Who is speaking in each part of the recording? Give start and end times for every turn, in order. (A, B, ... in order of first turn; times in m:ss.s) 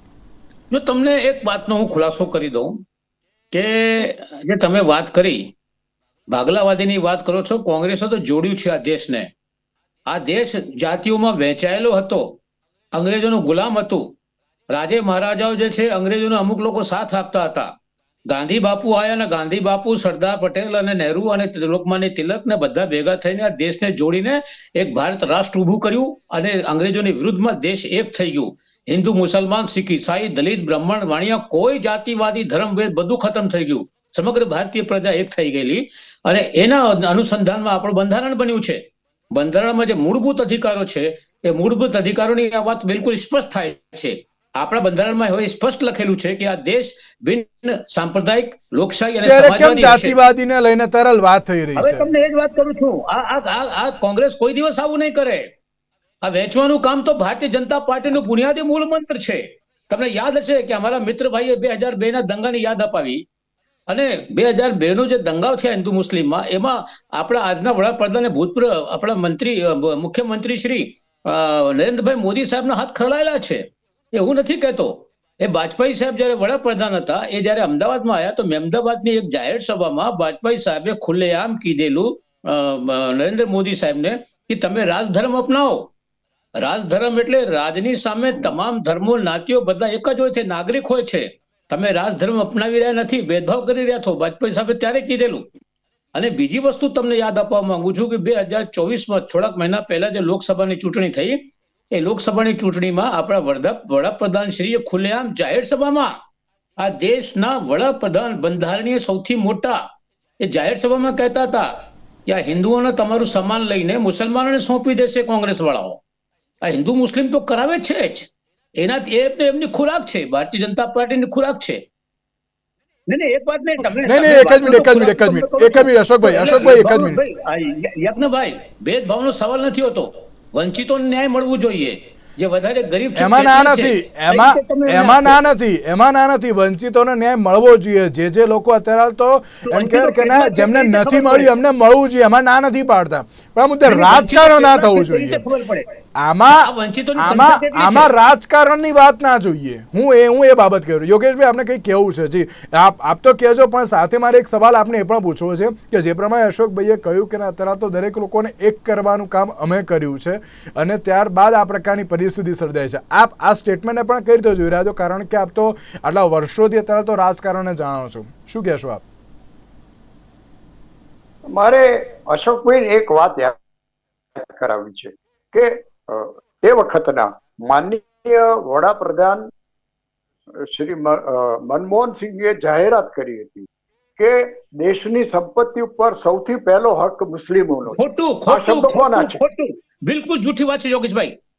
0:00.7-0:02.8 A
0:03.5-0:05.5 A
0:06.3-0:09.3 A
0:10.1-0:12.4 A
0:12.9-0:14.1 A
0:14.7-0:17.7 A
0:18.3-0:38.8 A
0:39.3-0:50.2 A
0:49.2-0:52.0 B
0:51.8-0:55.5 A
0:56.2-1:03.2 A
1:03.9-1:25.9 A
1:26.6-1:35.5 A
1:36.2-1:46.2 A
1:46.8-1:49.9 A
1:50.4-1:51.7 A
1:52.3-1:56.0 A
1:56.6-2:01.8 A
2:03.1-2:15.4 A
2:04.0-2:07.2 B
2:13.2-2:25.4 B
2:19.6-2:21.5 A
2:23.9-2:26.0 A
2:26.2-2:49.0 B
2:26.6-2:28.1 A
2:51.5-2:53.6 C
2:54.4-2:59.5 C
3:00.6-3:09.4 C
3:08.0-3:11.4 A